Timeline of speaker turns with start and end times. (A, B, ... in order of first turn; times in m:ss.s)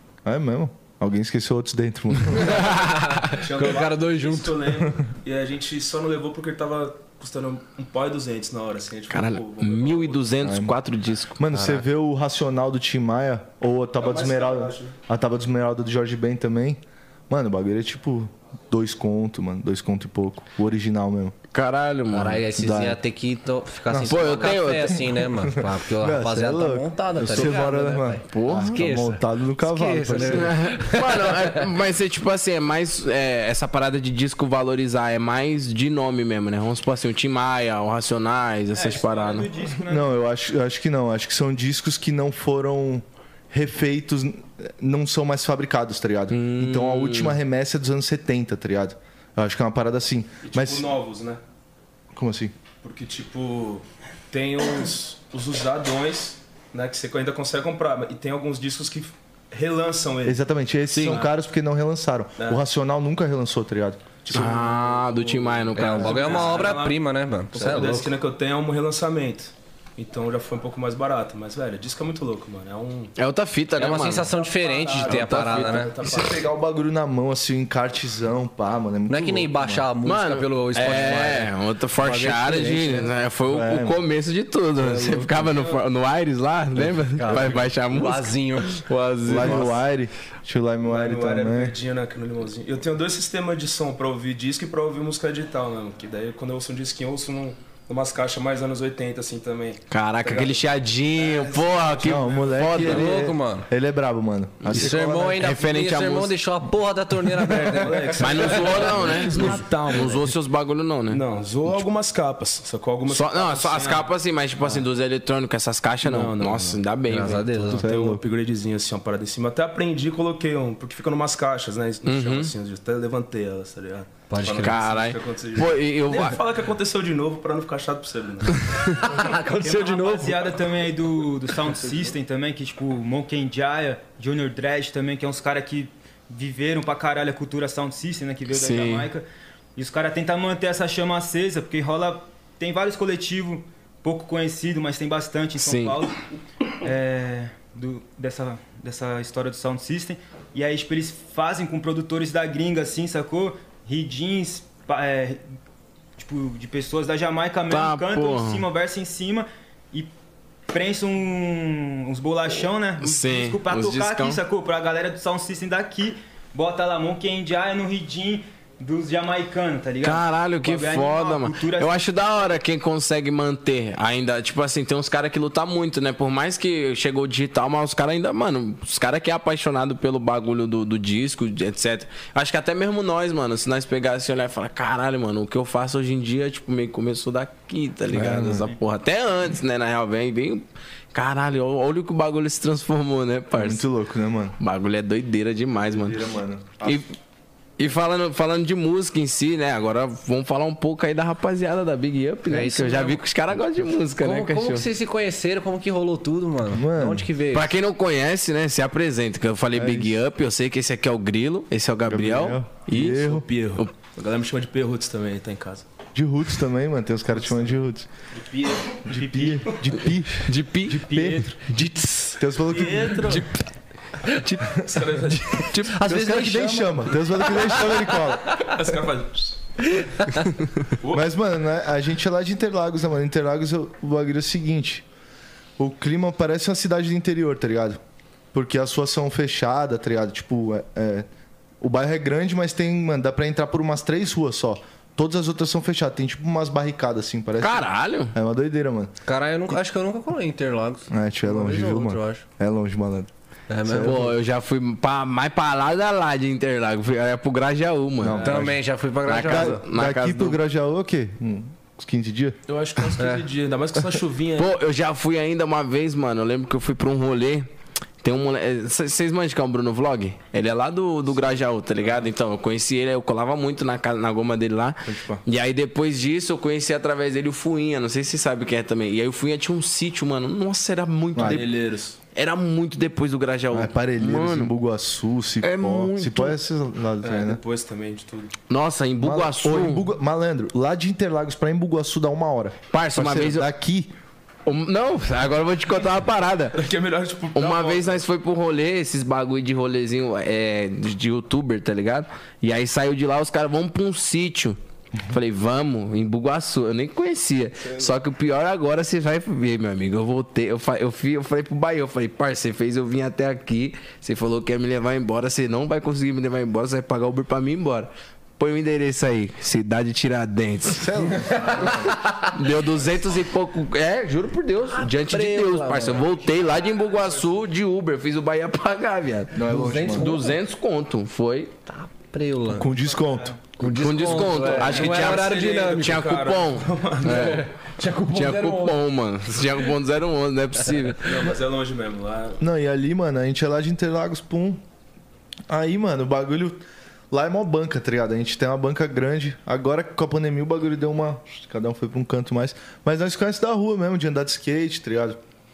0:00.2-0:02.7 A
0:02.5-0:04.6 B
0:02.5-0:03.4 C
0:03.3-0:10.4 D
0:09.1-0:11.4 C
0:10.4-0:10.7 A
0:11.4-0:21.3 A
0:11.5-0:11.8 B
0:14.0-0:14.9 D
0:21.5-0:22.5 C
0:22.1-0:31.7 B
0:22.5-0:23.0 A
0:23.9-0:30.5 A
0:24.1-0:25.2 C
0:28.3-0:28.8 C
0:30.2-0:39.5 C
0:38.7-0:40.1 E
0:39.8-0:50.9 A
0:46.3-0:47.4 C
0:50.4-0:51.4 D
0:52.1-0:52.5 A
0:52.8-1:00.4 D
1:00.2-1:04.6 A
1:00.9-1:01.2 C
1:01.0-1:01.3 D
1:02.4-1:02.6 D
1:04.2-1:13.1 D
1:04.3-1:06.7 C
1:05.8-1:08.0 B
1:07.6-1:08.1 A
1:13.2-1:14.3 C
1:13.8-1:15.9 B
1:14.1-1:16.5 D
1:15.0-1:15.9 C
1:16.0-1:19.9 A
1:19.1-1:23.1 B
1:20.0-1:29.8 C
1:23.4-1:24.0 A
1:24.8-1:25.5 A
1:26.8-1:28.8 B
1:27.3-1:27.6 A
1:29.2-1:31.8 A
1:29.3-1:29.6 B
1:30.8-1:40.6 D
1:39.9-1:43.1 C
1:41.3-1:42.2 D
1:42.0-1:45.5 A
1:42.8-1:43.7 B
1:44.6-1:46.3 C
1:44.7-1:49.0 B
1:47.3-1:48.1 A
1:47.7-1:50.3 D
1:48.2-1:51.2 C
1:51.1-1:54.1 D
1:53.1-1:57.8 C
1:56.0-1:56.8 D
1:57.1-1:57.8 B
1:57.7-2:10.5 D
1:57.7-1:58.2 A
2:02.0-2:02.5 C
2:04.3-2:04.8 B
2:04.6-2:06.4 C
2:08.7-2:09.0 C
2:09.0-2:10.3 B
2:09.6-2:19.2 E
2:18.5-2:19.1 C
2:19.8-2:26.2 E
2:25.6-2:26.0 C
2:26.8-2:35.4 E
2:36.2-2:40.1 E
2:37.7-2:38.6 C
2:40.7-2:51.9 E
2:43.0-2:44.4 C
2:50.0-3:13.8 C
3:08.1-3:08.7 A
3:13.5-3:14.6 A
3:14.6-3:16.2 C
3:15.9-3:17.0 A
3:16.8-3:17.1 C
3:17.8-3:24.9 C
3:22.5-3:23.2 B
3:24.2-3:27.7 B
3:26.7-3:27.3 A
3:27.5-3:33.9 C
3:29.7-3:30.2 A
3:32.0-3:33.5 A
3:33.0-3:35.8 D
3:36.1-3:38.1 A
3:38.3-3:39.9 D
3:39.1-3:43.5 A
3:40.4-3:41.2 C
3:41.1-3:41.4 D
3:41.8-3:42.4 B
3:42.6-3:43.5 D
3:44.3-3:45.9 D
3:45.7-3:48.1 B
3:45.9-3:48.7 A
3:48.6-3:49.6 D
3:51.0-3:51.3 D
3:51.1-3:55.0 A
3:55.8-3:58.0 A
3:58.5-4:01.3 A
4:01.8-4:09.2 A
4:07.6-4:08.3 C
4:09.2-4:12.4 B
4:11.1-4:13.3 A
4:13.7-4:14.3 B
4:13.8-4:14.4 A
4:14.0-4:18.5 C
4:18.2-4:23.1 A
4:18.4-4:18.7 D
4:18.4-4:19.8 B
4:19.2-4:20.6 C
4:22.7-4:24.8 D
4:23.2-4:23.4 B
4:24.6-4:27.7 C
4:28.2-4:41.7 C
4:35.0-4:35.4 A
4:41.3-4:41.6 A
4:41.4-4:42.2 D
4:42.3-4:44.7 C
4:43.7-4:47.6 A
4:45.6-4:46.6 C
4:47.2-4:48.5 D
4:48.7-4:50.1 C
4:49.2-4:54.1 A
4:52.9-4:53.7 C
4:54.6-4:56.8 C
4:56.7-4:58.2 D
4:57.5-5:29.6 C
5:20.9-5:22.2 A
5:24.9-5:26.5 B
5:26.4-5:27.5 E
5:29.5-5:30.4 A
5:29.6-5:30.6 B
5:30.1-5:31.7 C
5:31.9-5:32.9 B
5:32.7-5:33.6 A
5:33.1-5:33.6 E
5:33.8-5:36.3 B
5:33.8-5:37.7 C
5:34.2-5:38.7 D
5:37.2-5:39.0 B
5:38.3-5:41.3 C
5:41.2-5:42.6 D
5:42.6-5:44.8 A
5:45.7-5:55.4 A